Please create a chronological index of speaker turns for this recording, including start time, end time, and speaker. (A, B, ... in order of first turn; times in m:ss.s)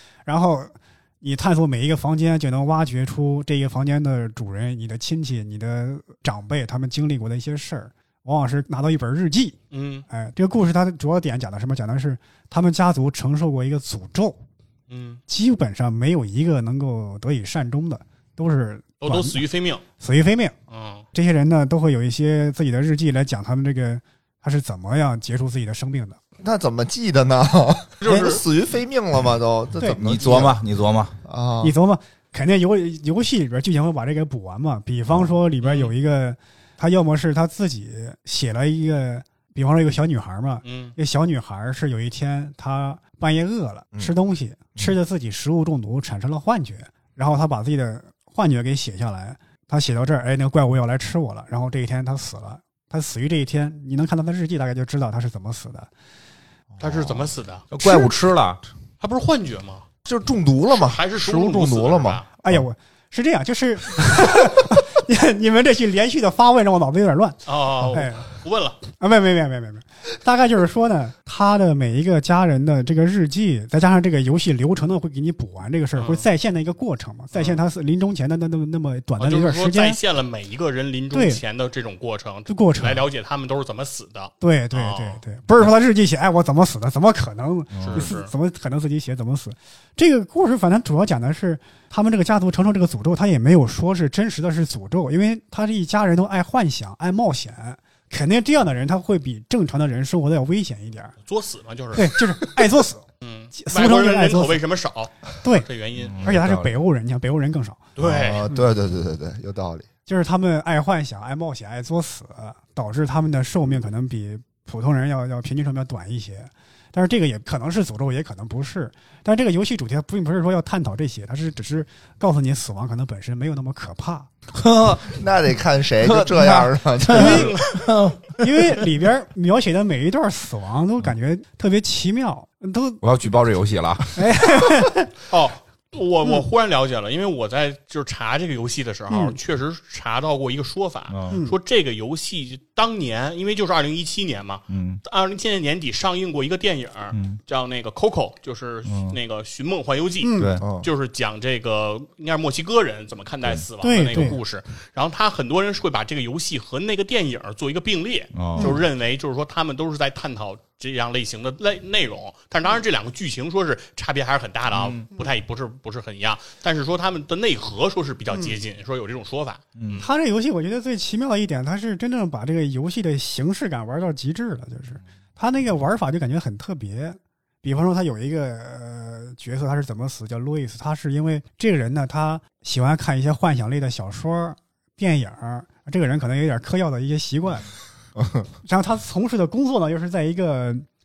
0:00.2-0:09.6 A
0:09.7-0:10.0 B
0:10.1-0:14.4 A
0:14.9-0:15.2 B
0:15.3-0:19.4 A
0:19.0-0:19.8 B
0:20.0-0:20.5 A
0:20.7-0:21.0 B
0:21.1-0:26.2 A
0:26.4-0:30.6 C
0:28.0-0:28.4 B
0:30.0-0:31.2 D
0:31.2-0:31.7 C
0:31.6-0:55.9 A
0:35.6-0:35.9 B
0:40.6-0:40.9 B
0:56.7-0:58.1 C
0:56.8-0:57.6 B
0:57.7-0:58.6 D
0:59.0-0:59.8 B
1:00.0-1:02.2 C
1:00.7-1:02.3 B
1:02.4-1:07.4 A
1:07.4-1:08.8 B
1:07.9-1:08.3 A
1:08.9-1:20.0 A
1:16.0-1:16.3 B
1:17.3-1:17.6 B
1:19.2-1:25.2 B
1:21.1-1:21.4 A
1:22.5-1:23.0 A
1:24.4-1:41.1 A
1:27.7-1:28.1 D
1:27.8-1:28.3 B
1:41.2-1:42.2 B
1:41.9-1:44.6 A
1:43.2-1:46.2 B
1:45.4-1:45.7 A
1:46.0-1:46.7 D
1:46.2-1:47.8 A
1:48.0-1:48.4 B
1:48.0-1:49.9 C
1:50.1-2:04.3 A
2:04.5-2:05.2 D
2:05.0-2:07.6 C
2:06.0-2:08.9 D
2:07.1-2:07.6 A
2:07.1-2:07.7 B
2:08.4-2:13.0 A
2:13.0-2:14.3 D
2:14.2-2:15.1 A
2:15.3-2:50.1 B
2:19.1-2:19.4 A
2:21.1-2:21.4 D
2:21.3-2:21.6 A
2:24.7-2:25.0 D
2:27.1-2:27.4 D
2:28.9-2:29.2 D
2:30.2-2:30.6 A
2:30.4-2:30.6 D
2:30.6-2:30.9 C
2:33.4-2:34.2 D
2:33.8-2:34.4 A
2:38.3-2:38.8 D
2:44.7-2:45.0 D
2:48.3-2:48.6 A
2:49.8-2:50.0 D
2:50.0-3:07.7 A
3:08.2-3:08.5 C
3:08.6-3:10.8 A